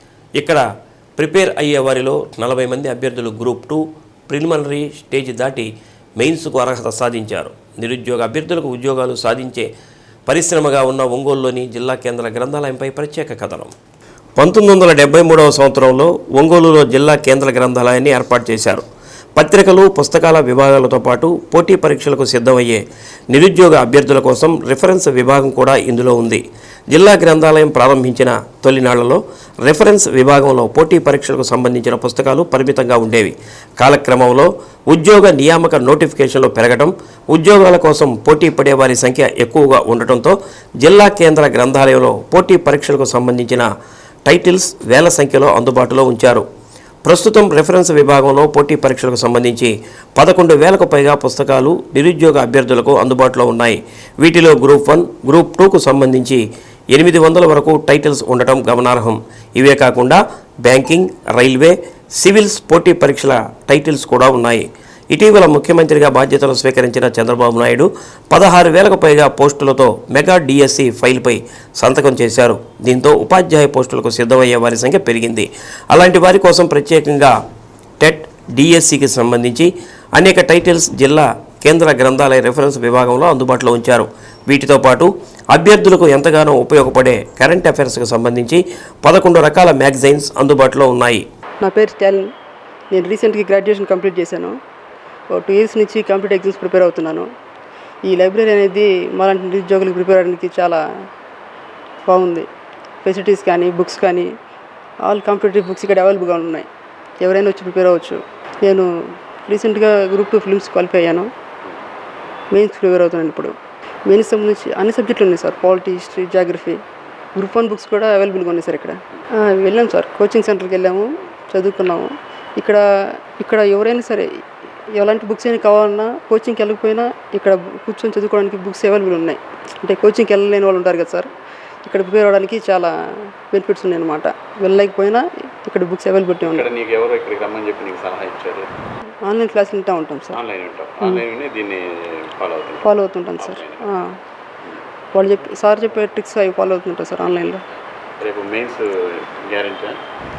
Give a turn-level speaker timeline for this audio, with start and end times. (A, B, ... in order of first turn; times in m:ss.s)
0:00.4-0:00.6 A
0:01.2-0:09.7 A
0:10.3-0:13.7 A
0:14.4-0:18.8 A
0:19.4-0:22.8 A
0:23.3-0:43.6 A
0:44.2-0:46.4 A
0:47.0-1:17.3 A
1:18.0-1:31.2 A
1:31.6-1:32.3 B
1:32.9-1:34.6 B
1:35.3-1:37.3 B
1:38.0-1:40.8 B
1:42.0-1:42.5 B
1:43.0-1:44.3 B
1:45.0-1:46.7 B
1:47.2-1:48.9 B
1:49.4-1:51.3 B
1:52.5-1:53.5 B
1:54.0-1:56.8 B
1:57.3-2:02.8 B
2:03.4-2:04.3 B
2:04.9-2:11.3 B
2:11.8-2:12.9 B
2:13.5-2:16.7 B
2:16.5-2:18.7 C
2:19.2-2:20.4 B
2:20.3-2:22.9 C
2:22.8-2:24.2 B
2:23.4-2:23.8 C
2:25.1-2:27.6 B
2:28.2-2:30.0 C